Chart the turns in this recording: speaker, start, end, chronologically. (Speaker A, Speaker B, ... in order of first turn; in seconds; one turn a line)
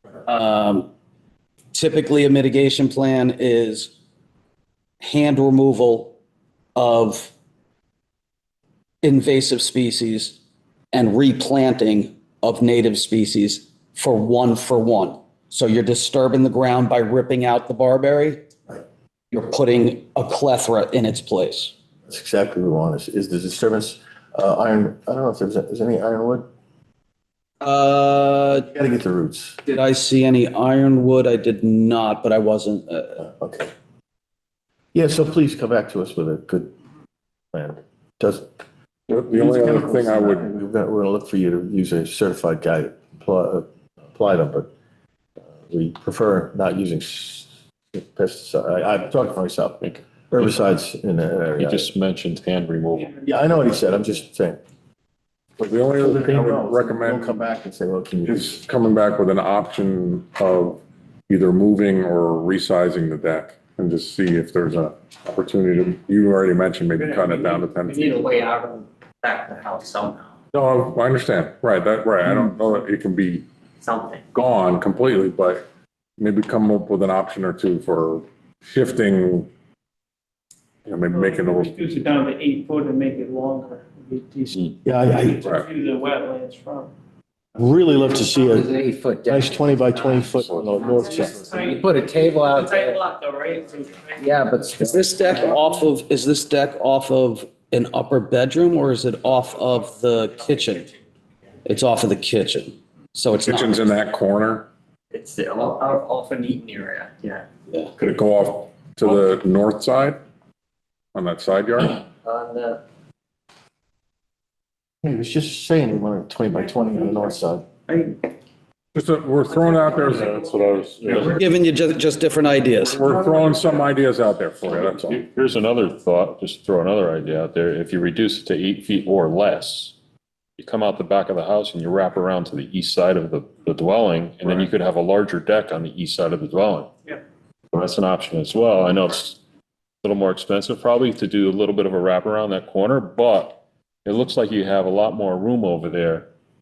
Speaker A: 0.3-0.9
Speaker A: 1.7-3.9
Speaker A: 5.0-6.2
Speaker A: 6.8-7.3
Speaker A: 9.0-10.4
Speaker A: 10.9-18.4
Speaker A: 19.3-21.7
Speaker B: 22.1-26.5
Speaker A: 27.6-28.7
Speaker B: 28.7-29.6
Speaker A: 29.7-33.2
Speaker B: 33.2-33.7
Speaker B: 34.9-36.7
Speaker B: 37.5-38.5
Speaker C: 39.1-40.5
Speaker B: 39.3-44.7
Speaker B: 45.6-51.9
Speaker D: 49.8-50.5
Speaker D: 51.6-53.1
Speaker E: 52.9-53.5
Speaker B: 53.2-54.6
Speaker C: 55.6-57.4
Speaker B: 56.0-58.6
Speaker C: 58.3-68.2
Speaker F: 67.0-70.3
Speaker C: 70.5-73.5
Speaker F: 73.8-74.2
Speaker C: 74.3-75.6
Speaker C: 76.2-79.5
Speaker C: 80.9-81.7
Speaker E: 81.1-84.7
Speaker B: 84.8-85.5
Speaker E: 85.2-86.9
Speaker B: 87.6-88.7
Speaker G: 88.4-90.5
Speaker B: 89.3-91.5
Speaker E: 90.8-94.6
Speaker G: 91.5-93.0
Speaker G: 94.2-95.0
Speaker A: 94.8-100.8
Speaker A: 101.7-103.8
Speaker C: 103.5-104.7
Speaker F: 105.1-107.4
Speaker C: 108.0-110.2
Speaker C: 111.2-112.0
Speaker F: 112.2-112.8
Speaker B: 115.0-117.7
Speaker E: 117.9-118.2
Speaker C: 119.0-121.3
Speaker F: 119.7-120.3
Speaker A: 121.3-123.0
Speaker C: 122.9-125.2
Speaker D: 124.7-129.9
Speaker D: 130.6-136.9
Speaker D: 137.7-139.4
Speaker D: 140.0-146.3